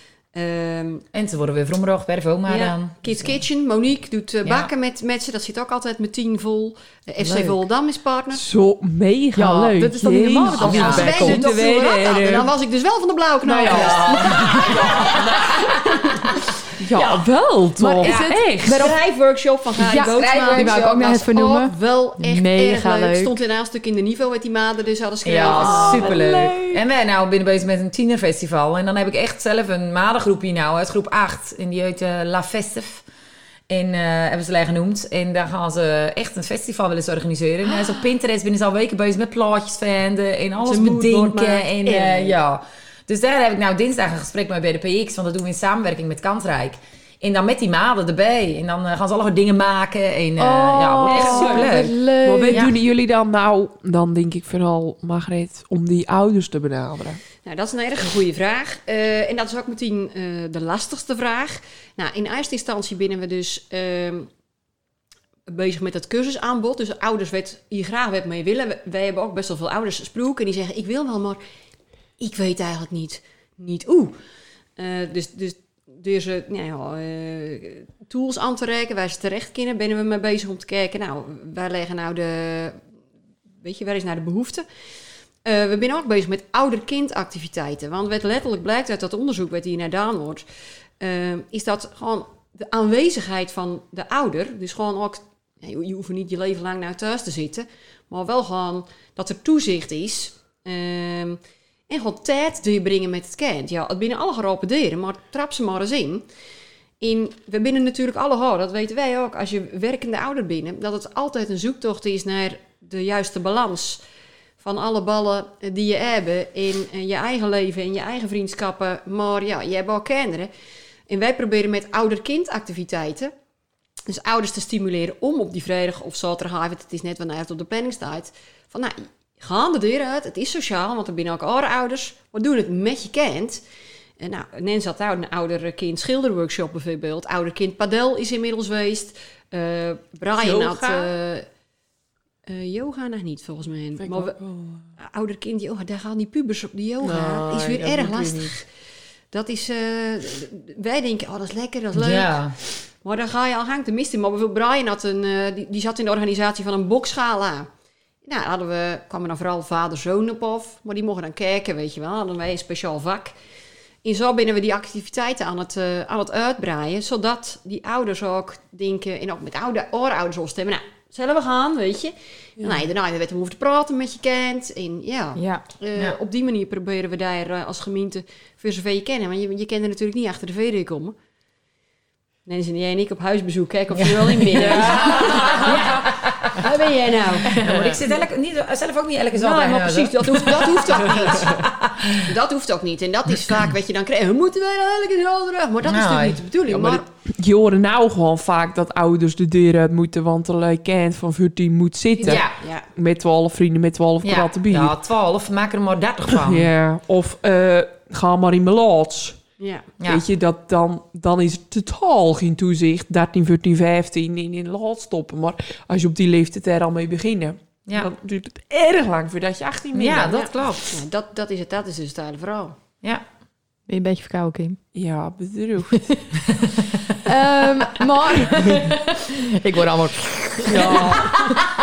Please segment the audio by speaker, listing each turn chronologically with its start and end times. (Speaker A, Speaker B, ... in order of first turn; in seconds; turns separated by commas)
Speaker A: 0.3-1.0, Speaker B: 1.1-3.4, Speaker A: 2.5-8.4, Speaker B: 4.4-4.7, Speaker C: 7.2-7.6, Speaker D: 8.3-12.5, Speaker C: 9.3-11.4, Speaker B: 10.6-11.2, Speaker A: 10.8-15.0, Speaker C: 13.4-15.1, Speaker B: 13.7-15.7, Speaker D: 14.6-15.5, Speaker A: 15.5-16.2, Speaker D: 16.8-18.9, Speaker C: 17.8-19.0, Speaker B: 18.0-18.4, Speaker A: 18.7-26.2, Speaker C: 19.8-23.3, Speaker B: 19.8-20.9, Speaker B: 25.2-33.0, Speaker D: 25.4-26.8, Speaker B: 33.7-52.0, Speaker A: 40.6-42.4, Speaker C: 50.4-52.7, Speaker A: 51.1-51.7, Speaker D: 52.2-57.2, Speaker A: 57.4-64.3, Speaker A: 65.5-71.4, Speaker A: 72.2-74.2, Speaker A: 74.8-82.8, Speaker A: 83.6-84.7, Speaker A: 85.4-90.4, Speaker A: 91.0-106.2, Speaker A: 107.0-114.0, Speaker A: 114.6-120.5, Speaker A: 121.1-123.3, Speaker A: 124.0-133.6, Speaker A: 134.2-141.5, Speaker D: 140.4-141.1, Speaker A: 142.4-144.4, Speaker D: 144.0-144.9, Speaker A: 145.0-148.7, Speaker D: 147.0-148.5, Speaker A: 149.3-157.7, Speaker B: 151.9-152.6, Speaker A: 158.2-163.3, Speaker A: 164.0-181.1, Speaker C: 175.3-175.6, Speaker A: 182.4-185.9, Speaker B: 184.0-186.6, Speaker A: 186.6-188.1, Speaker B: 187.4-192.3, Speaker A: 189.3-197.0, Speaker B: 195.8-196.4, Speaker D: 196.7-204.9, Speaker A: 202.2-202.9, Speaker B: 202.2-202.6, Speaker B: 204.2-206.7, Speaker D: 206.3-209.4, Speaker A: 209.6-209.9, Speaker B: 210.0-210.2, Speaker D: 210.0-220.4, Speaker B: 219.9-220.9, Speaker A: 220.3-222.8, Speaker C: 223.9-224.8, Speaker D: 224.9-226.1, Speaker C: 227.2-231.5, Speaker D: 230.7-231.3